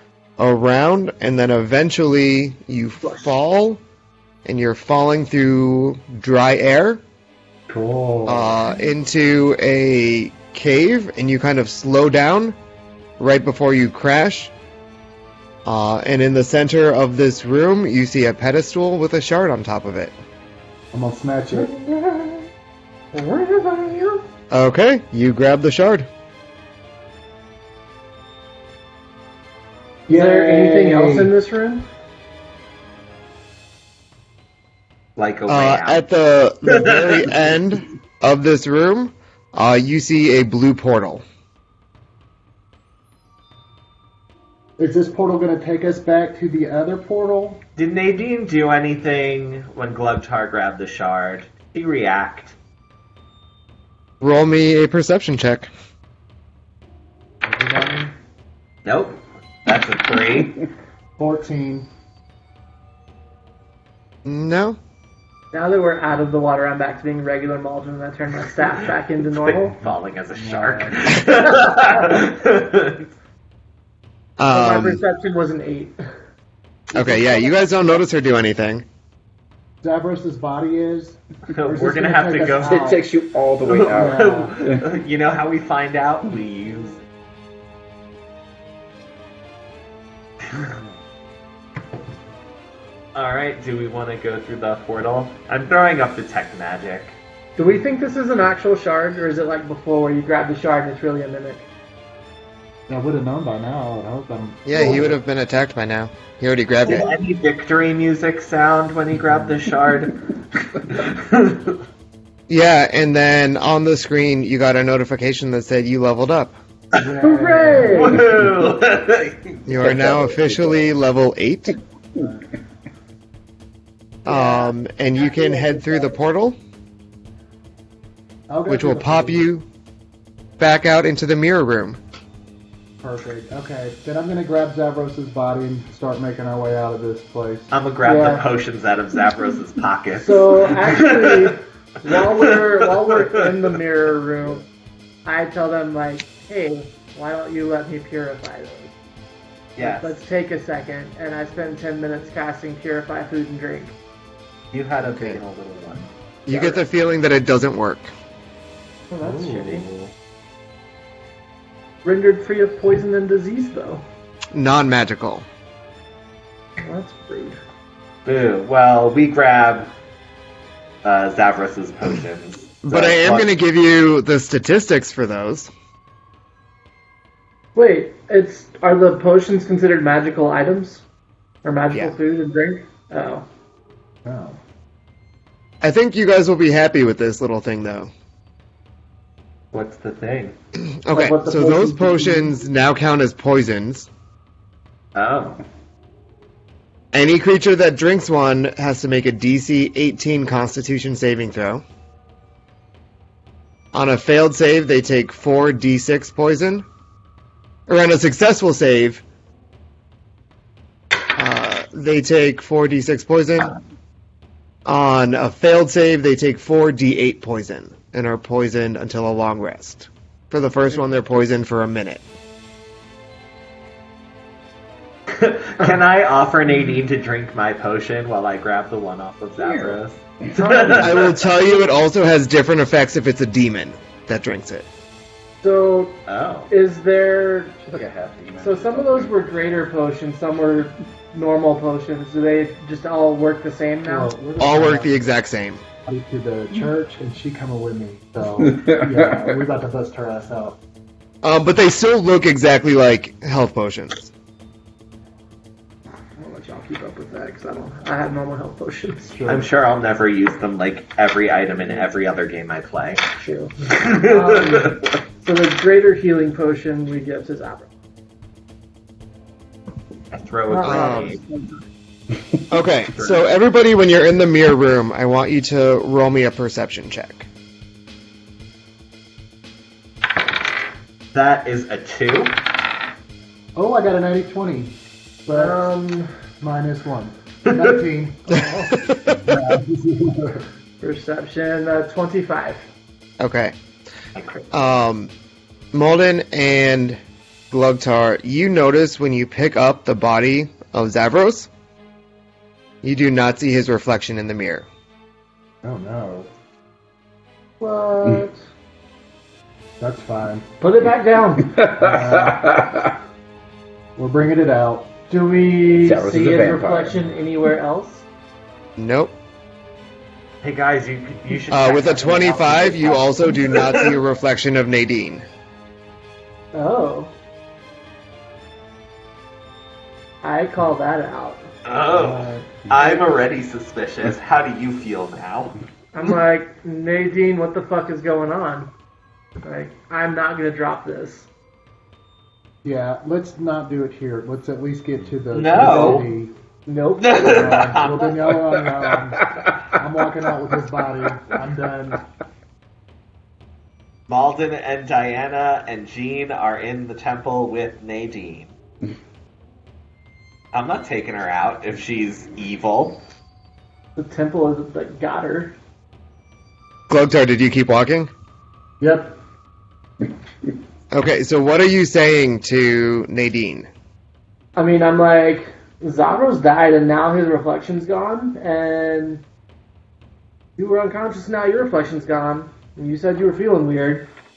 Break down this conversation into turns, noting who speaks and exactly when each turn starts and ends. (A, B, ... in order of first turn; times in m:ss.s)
0:00.4-0:03.8 A
0:04.4-0:07.0 A
0:07.7-0:08.7 B
0:08.3-0:12.6 A
0:13.2-0:14.5 A
0:15.6-0:20.1 A
0:20.9-0:21.7 B
0:21.5-0:22.5 C
0:23.1-0:24.2 C
0:24.5-0:26.1 A
0:30.1-0:31.3 B
0:30.1-0:31.9 C
0:35.2-0:36.0 D
0:35.5-0:41.2 A
0:36.6-0:37.4 D
0:44.8-0:47.6 B
0:47.8-0:52.6 D
0:54.2-0:55.7 A
0:57.4-0:58.1 B
0:58.8-1:00.6 D
1:01.2-1:01.9 B
1:04.2-1:04.8 A
1:05.5-1:09.8 C
1:09.3-1:13.1 D
1:10.3-1:11.2 B
1:14.4-1:15.0 A
1:14.5-1:16.0 C
1:16.9-1:18.8 A
1:19.8-1:23.0 B
1:21.5-1:22.9 D
1:22.6-1:24.8 E
1:23.7-1:27.0 D
1:23.8-1:24.6 B
1:30.6-1:31.0 B
1:33.2-1:37.2 D
1:37.6-1:41.7 C
1:42.9-1:45.2 B
1:44.7-1:47.1 A
1:46.8-1:51.8 D
1:52.5-1:56.6 A
1:56.9-1:58.3 B
1:57.2-1:58.3 C
1:57.8-1:59.6 D
1:59.7-2:01.8 A
1:59.8-2:00.8 E
2:02.2-2:02.4 B
2:04.2-2:06.6 A
2:04.3-2:04.7 C
2:08.5-2:09.5 B
2:08.7-2:09.6 A
2:10.6-2:12.0 A
2:13.0-2:17.7 B
2:17.7-2:21.6 D
2:18.0-2:18.5 C
2:20.1-2:24.6 C
2:22.4-2:23.5 D
2:25.2-2:29.0 C
2:29.8-2:30.2 D
2:29.8-2:33.9 C
2:34.7-2:36.1 D
2:35.2-2:35.4 A
2:36.5-2:38.1 A
2:36.5-2:36.8 C
2:39.1-2:39.9 C
2:42.0-2:44.0 C
2:44.5-2:45.5 A
2:46.8-2:47.6 C
2:48.2-2:49.9 D
2:51.0-2:53.5 D
2:52.8-2:55.7 A
2:57.8-3:01.0 C
3:01.6-3:03.5 C
3:04.2-3:04.6 B
3:05.8-3:08.1 A
3:09.7-3:10.6 D
3:10.8-3:14.1 A
3:11.1-3:12.6 C
3:15.2-3:15.6 D
3:17.1-3:21.8 A
3:23.9-3:26.9 A
3:27.9-3:29.2 A
3:31.4-3:33.8 A
3:34.8-3:42.2 A
3:45.3-3:51.5 D
3:50.6-3:51.3 C
3:50.9-3:54.9 A
3:55.6-3:58.0 C
3:56.3-3:56.7 D
3:57.9-3:59.4 E
3:58.6-4:04.3 C
4:04.1-4:05.2 B
4:04.6-4:05.8 A
4:06.1-4:10.8 B
4:08.6-4:09.4 E
4:11.4-4:14.3 A
4:16.4-4:19.4 C
4:19.3-4:19.7 B
4:19.5-4:23.3 D
4:23.3-4:27.9 C
4:23.9-4:25.0 D
4:30.3-4:31.4 D
4:30.7-4:31.4 C
4:30.8-4:31.4 A
4:32.7-4:37.5 A
4:33.1-4:33.5 D
4:41.3-4:42.6 D
4:43.8-4:44.9 B
4:45.5-4:45.9 B
4:45.5-4:46.3 C
4:46.6-4:48.7 B
4:48.5-4:48.9 C
4:48.9-4:49.6 A
4:49.4-4:50.6 B
4:51.0-4:52.8 C
4:53.4-4:53.8 A
4:54.4-4:54.7 D
4:54.7-4:55.3 A
4:55.9-4:57.2 A
4:57.7-5:01.7 A
5:03.0-5:04.9 A
5:05.8-5:06.5 B
5:07.8-5:08.6 C
5:10.0-5:10.6 B
5:10.8-5:11.9 C
5:11.8-5:13.0 E
5:12.0-5:12.7 B
5:14.2-5:15.1 B
5:15.3-5:18.3 C
5:16.0-5:17.2 E
5:19.0-5:19.4 A
5:20.6-5:24.2 D
5:21.7-5:25.5 A
5:26.7-5:27.3 C
5:30.4-5:31.7 C
5:31.8-5:36.2 D
5:32.1-5:32.7 B
5:36.1-5:38.9 C
5:39.6-5:41.5 C
5:42.8-5:46.5 B
5:45.5-5:46.3 D
5:46.9-5:48.1 C
5:47.2-5:48.6 D
5:47.4-5:52.2 B
5:54.3-5:58.7 D
6:00.7-6:03.2 D
6:04.2-6:05.7 C
6:07.1-6:08.3 A
6:09.0-6:09.4 B
6:11.1-6:13.9 A
6:14.8-6:19.4 C
6:20.8-6:24.3 C